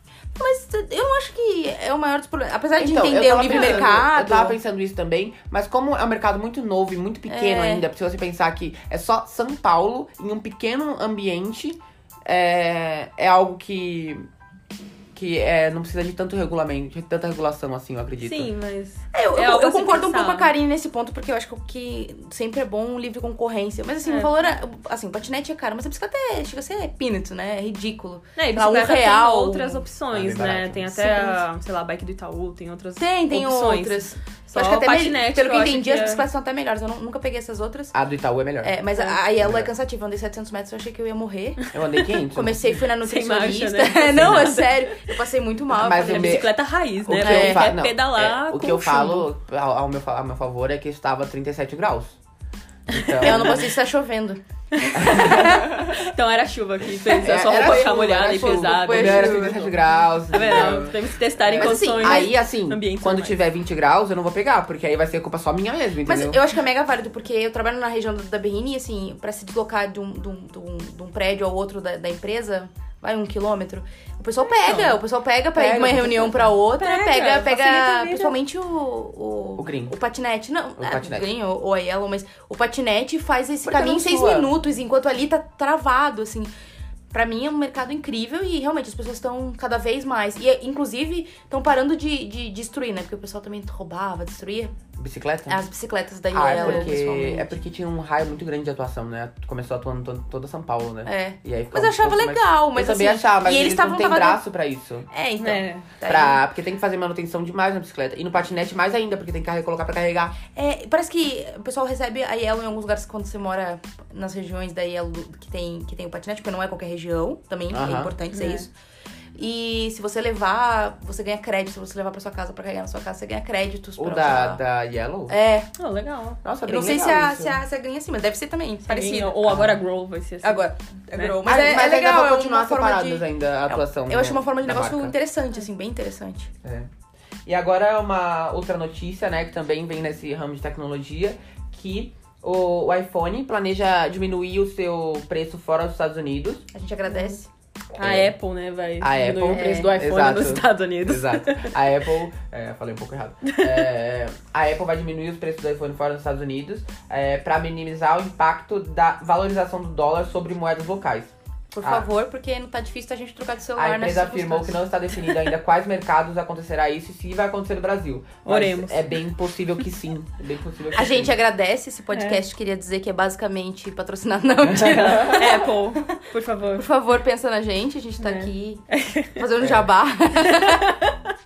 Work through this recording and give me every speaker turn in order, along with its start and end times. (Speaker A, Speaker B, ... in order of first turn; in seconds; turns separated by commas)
Speaker A: 0.3-4.6, Speaker B: 2.8-14.2, Speaker C: 3.5-3.8, Speaker A: 7.3-7.8, Speaker B: 15.1-18.5, Speaker C: 18.2-20.5, Speaker A: 19.1-29.8, Speaker C: 24.1-24.3, Speaker C: 28.4-36.2, Speaker B: 30.1-31.0, Speaker A: 30.9-31.4, Speaker A: 33.0-37.9, Speaker B: 37.9-38.7, Speaker A: 38.6-41.7, Speaker B: 39.4-39.7, Speaker B: 41.7-42.6, Speaker A: 42.3-46.5, Speaker C: 42.9-45.1, Speaker B: 44.1-44.5, Speaker B: 45.7-46.5, Speaker C: 45.9-49.2, Speaker B: 47.0-52.2, Speaker A: 47.2-47.7, Speaker B: 52.9-53.7, Speaker C: 53.0-53.4, Speaker A: 53.2-55.9, Speaker C: 54.8-59.7, Speaker B: 54.9-55.6, Speaker A: 57.1-59.7, Speaker B: 57.2-66.4, Speaker C: 60.3-63.4, Speaker A: 60.3-60.8, Speaker A: 61.5-62.3, Speaker A: 66.0-86.5, Speaker C: 74.6-75.0, Speaker B: 75.5-76.4, Speaker C: 76.7-78.3, Speaker B: 79.6-79.9, Speaker B: 80.8-81.2, Speaker B: 83.6-84.5, Speaker A: 87.1-94.7, Speaker B: 95.0-95.6, Speaker A: 95.5-97.6, Speaker B: 96.3-105.1, Speaker C: 96.5-96.9, Speaker A: 101.0-104.4, Speaker A: 105.1-106.4, Speaker C: 105.4-105.9, Speaker B: 106.0-110.4, Speaker A: 110.5-118.7, Speaker B: 117.7-118.1, Speaker C: 118.3-118.7, Speaker A: 119.3-124.6, Speaker B: 124.0-125.3, Speaker A: 125.3-125.7, Speaker C: 125.8-126.4, Speaker B: 126.4-127.6, Speaker A: 126.6-129.6, Speaker C: 128.9-131.4, Speaker B: 129.4-129.8, Speaker A: 130.4-136.5, Speaker B: 131.4-135.1, Speaker B: 136.6-136.9, Speaker B: 137.4-146.7, Speaker A: 146.7-147.5, Speaker C: 147.1-147.4, Speaker B: 147.9-148.3, Speaker C: 147.9-151.8, Speaker B: 149.0-162.1, Speaker A: 149.5-149.9, Speaker A: 161.7-164.8, Speaker B: 163.8-171.3, Speaker C: 168.4-169.2, Speaker A: 170.9-175.7, Speaker C: 172.1-172.4, Speaker B: 174.7-175.4, Speaker C: 174.8-176.8, Speaker A: 176.8-178.8, Speaker C: 178.2-179.4, Speaker A: 179.3-180.9, Speaker C: 180.4-181.1